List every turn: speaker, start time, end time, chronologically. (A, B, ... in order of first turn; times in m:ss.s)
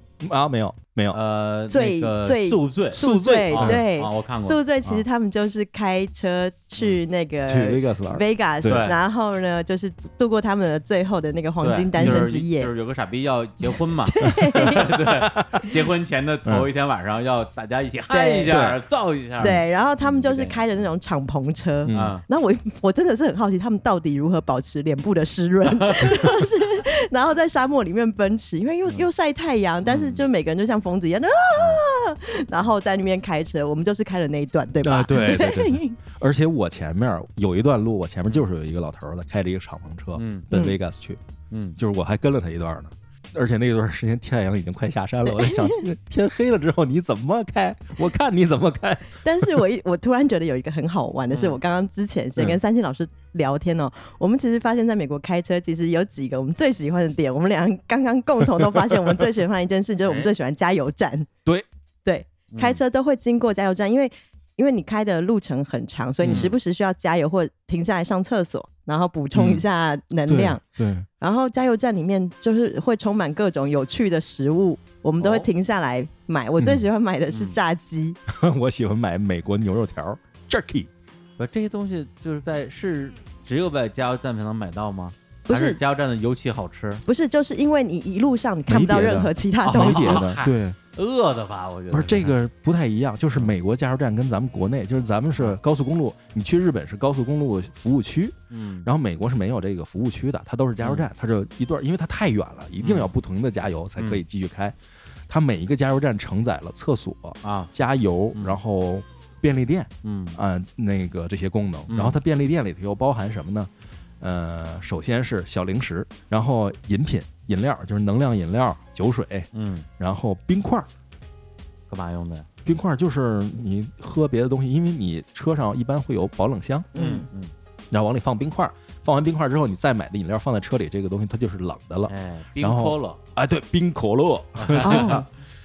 0:00.2-0:01.2 A
0:01.1-0:05.0 B
0:01.7-0:12.7 C
0:02.9-0:03.8 A
0:07.5-0:08.9 A
0:08.6-0:09.0 B
0:11.6-0:20.6 B
0:11.9-0:12.3 A
0:14.1-0:14.9 C
0:14.2-0:15.5 A
0:18.1-0:18.5 C
0:18.5-0:18.8 A
0:19.4-0:36.0 C
0:21.8-0:22.2 A
0:21.9-0:22.2 B
0:25.7-0:26.2 B
0:29.8-0:30.2 B
0:31.6-0:31.8 B
0:34.8-0:41.2 A
0:40.1-0:40.5 B
0:40.5-0:40.8 C
0:41.5-0:41.8 B
0:41.8-0:49.6 A
0:45.2-0:45.8 C
0:49.2-1:01.3 C
0:51.3-0:51.6 B
0:58.6-0:59.2 A
1:00.0-1:00.3 B
1:02.0-1:10.6 C
1:02.5-1:02.8 B
1:06.2-1:06.5 A
1:06.3-1:06.6 B
1:09.3-1:09.6 A
1:10.3-1:11.1 A
1:11.2-1:18.2 C
1:15.2-1:15.5 B
1:16.6-1:16.9 A
1:17.3-1:17.6 B
1:18.3-1:20.9 A
1:21.4-1:27.0 B
1:25.5-1:25.8 C
1:27.1-1:30.3 C
1:28.7-1:30.8 A
1:29.6-1:32.4 B
1:31.9-1:44.8 A
1:38.5-1:38.9 B
1:40.8-1:41.1 B
1:42.8-1:43.1 B
1:44.0-1:44.2 B
1:45.3-1:59.5 A
1:47.4-1:47.7 B
1:48.3-1:48.6 B
1:50.0-1:50.4 B
1:51.9-1:52.2 B
1:59.5-1:59.9 B
2:00.0-2:00.9 A
2:01.9-2:02.5 B
2:02.6-2:06.9 A
2:06.9-2:07.3 C
2:06.9-2:07.5 B
2:07.9-2:15.3 A
2:12.1-2:13.2 B
2:14.6-2:15.2 B
2:14.8-2:15.3 C